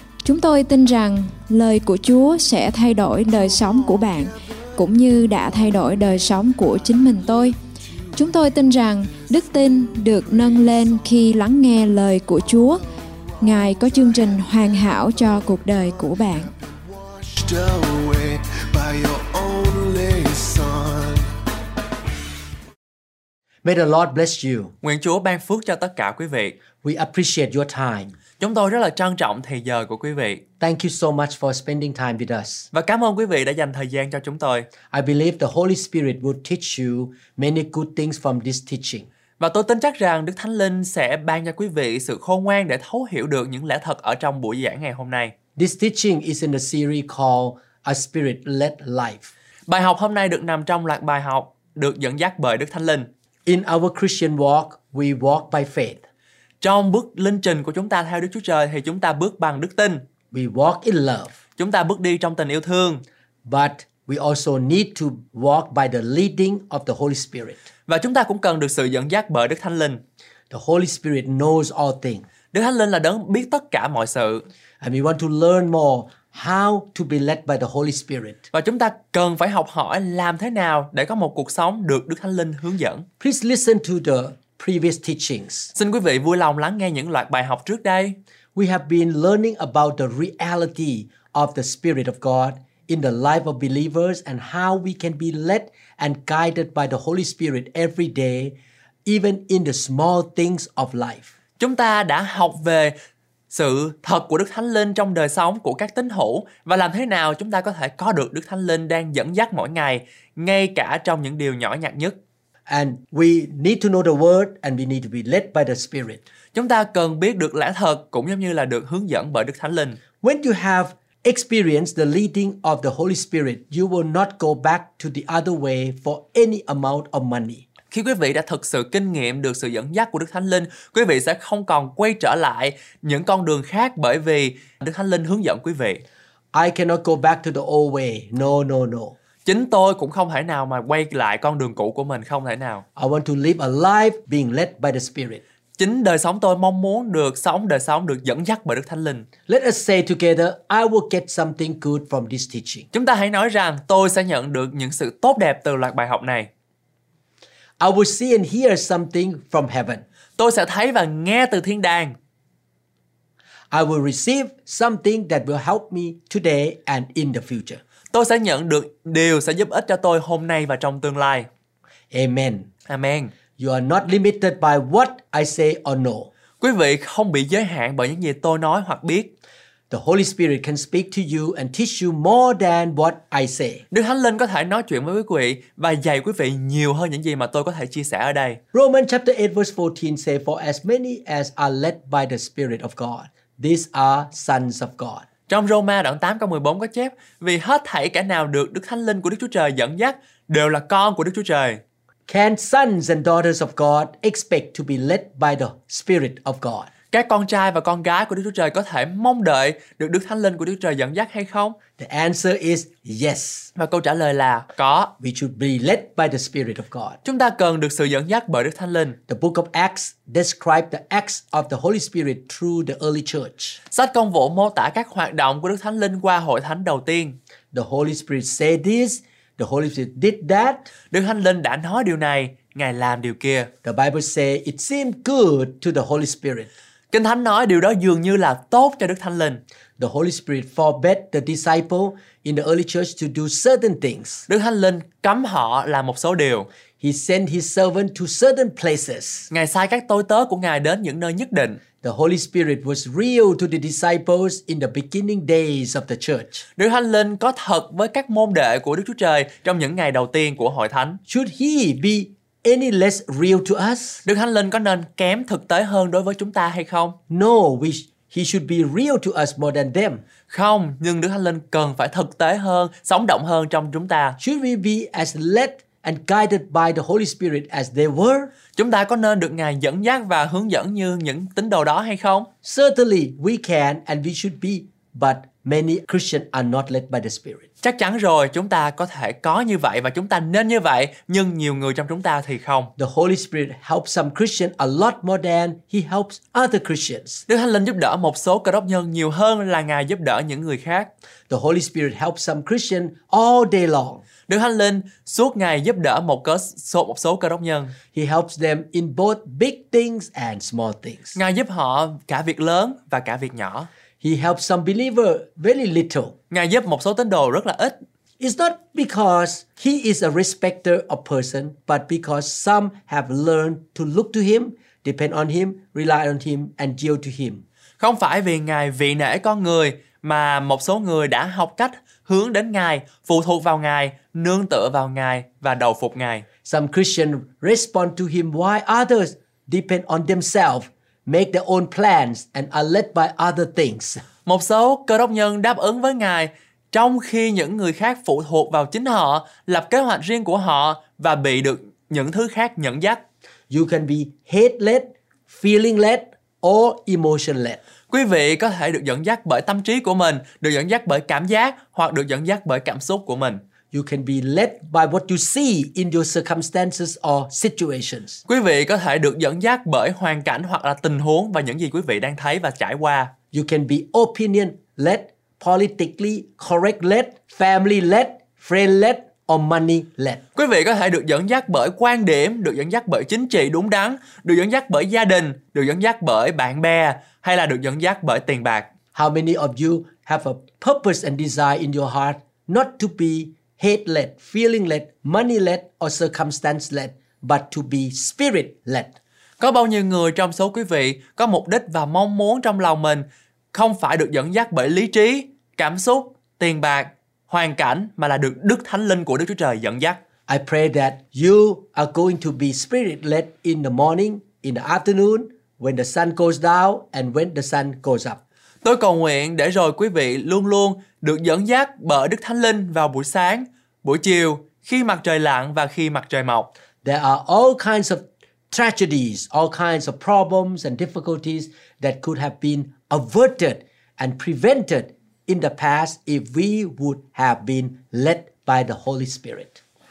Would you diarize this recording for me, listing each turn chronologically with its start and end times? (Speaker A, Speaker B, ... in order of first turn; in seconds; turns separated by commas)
Speaker A: 0.2-7.6, Speaker A: 8.1-12.8, Speaker A: 13.4-16.5, Speaker B: 16.4-21.3, Speaker C: 23.6-24.7, Speaker D: 24.8-26.6, Speaker C: 26.8-28.1, Speaker D: 28.4-30.4, Speaker C: 30.6-32.7, Speaker D: 32.7-34.7, Speaker C: 34.9-39.1, Speaker D: 39.4-45.3, Speaker C: 45.5-49.3, Speaker D: 49.7-53.1, Speaker C: 53.5-56.0, Speaker D: 56.6-60.0, Speaker C: 60.3-61.3, Speaker D: 61.6-63.0, Speaker C: 63.5-67.6, Speaker D: 67.9-70.0, Speaker C: 70.5-72.2, Speaker D: 72.5-74.4, Speaker C: 74.8-78.4, Speaker D: 78.5-83.0, Speaker C: 83.2-85.7, Speaker D: 85.7-88.2, Speaker C: 88.5-101.3, Speaker D: 101.6-102.9, Speaker D: 103.5-112.2, Speaker C: 112.7-116.2, Speaker D: 116.5-120.0, Speaker C: 120.2-127.6, Speaker D: 127.9-136.0, Speaker C: 136.5-139.2, Speaker D: 139.4-142.8, Speaker C: 142.9-145.4, Speaker D: 145.8-149.3, Speaker C: 149.5-152.9, Speaker D: 152.9-156.5, Speaker C: 157.8-160.0, Speaker D: 160.4-162.1, Speaker C: 163.7-167.8, Speaker D: 168.1-171.5, Speaker C: 172.1-172.7, Speaker D: 172.9-173.3, Speaker C: 173.6-176.3, Speaker D: 176.6-179.3, Speaker C: 179.9-183.8, Speaker D: 183.9-188.6, Speaker C: 188.7-195.2, Speaker D: 195.5-201.8, Speaker C: 202.3-206.9, Speaker D: 207.1-211.8, Speaker C: 212.0-213.7, Speaker D: 213.8-215.1, Speaker C: 215.2-217.2, Speaker D: 217.2-219.2, Speaker C: 219.3-223.8, Speaker D: 223.9-227.4, Speaker C: 227.7-230.9, Speaker D: 231.1-233.7, Speaker C: 233.8-236.7, Speaker D: 237.1-239.6, Speaker C: 240.0-244.4, Speaker D: 244.5-246.7, Speaker C: 247.0-249.5, Speaker D: 249.5-251.8, Speaker C: 252.0-256.6, Speaker D: 256.8-261.2, Speaker C: 261.3-264.2, Speaker D: 264.2-267.1, Speaker C: 267.3-270.2, Speaker D: 270.5-274.4, Speaker C: 274.4-278.5, Speaker D: 278.7-282.5, Speaker C: 282.6-287.6, Speaker D: 287.8-292.9, Speaker C: 293.0-297.4, Speaker D: 297.5-301.1, Speaker C: 301.5-304.2, Speaker D: 304.5-307.9, Speaker C: 308.1-311.4, Speaker D: 311.3-313.9, Speaker C: 314.2-316.4, Speaker D: 316.5-317.9, Speaker C: 318.4-327.6, Speaker D: 328.0-336.4, Speaker C: 336.6-344.2, Speaker D: 344.4-353.2, Speaker C: 353.7-357.8, Speaker D: 358.1-363.6, Speaker C: 363.9-368.4, Speaker D: 368.5-373.3, Speaker C: 373.5-380.4, Speaker D: 380.5-388.9, Speaker C: 389.1-399.1, Speaker D: 399.6-410.2, Speaker C: 410.5-418.4, Speaker D: 418.8-426.7, Speaker C: 427.0-439.8